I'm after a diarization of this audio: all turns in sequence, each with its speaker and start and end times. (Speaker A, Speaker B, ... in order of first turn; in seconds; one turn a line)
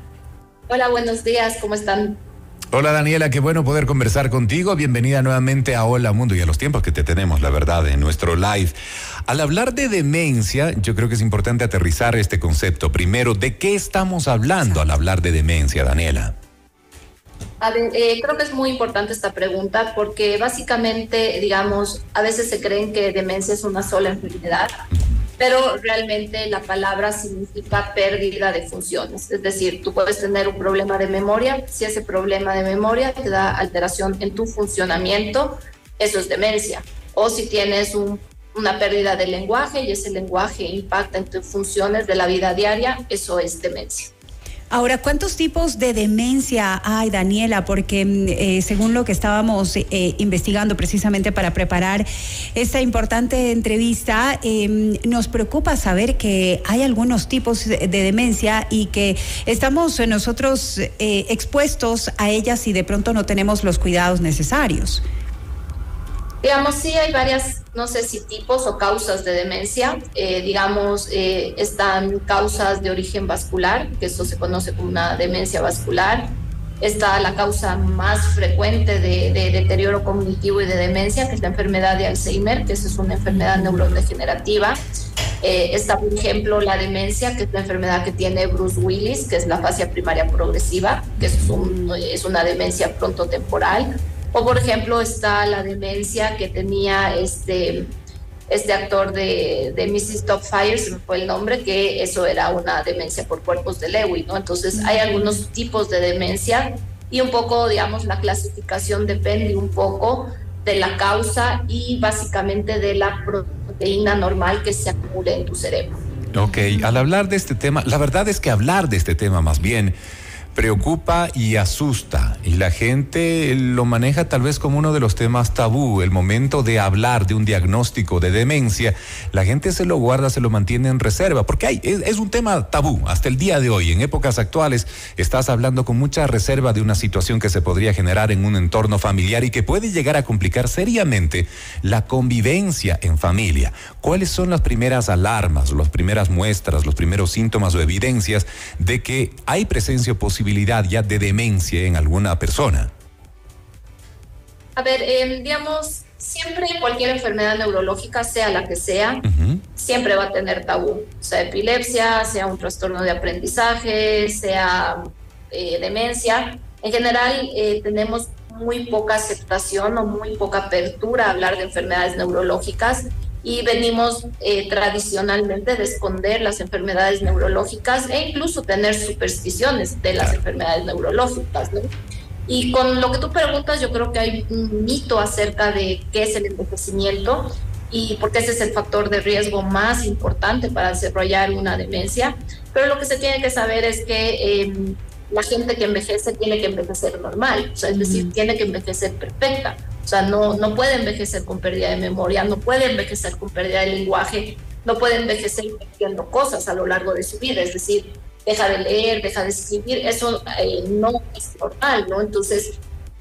Speaker A: 0.7-2.2
Speaker B: 2.7-8.7
Speaker B: 9.3-16.3
Speaker A: 17.6-24.7
Speaker A: 25.4-44.1
Speaker C: 44.7-65.0
Speaker A: 66.4-84.8
Speaker A: 85.4-97.9
Speaker A: 98.5-116.0
Speaker C: 104.7-105.0
Speaker B: 116.3-119.9
Speaker C: 116.4-117.0
Speaker B: 120.5-152.9
Speaker A: 154.8-159.2
Speaker B: 159.2-159.6
Speaker A: 159.7-181.9
Speaker A: 182.5-212.8
Speaker C: 197.9-198.3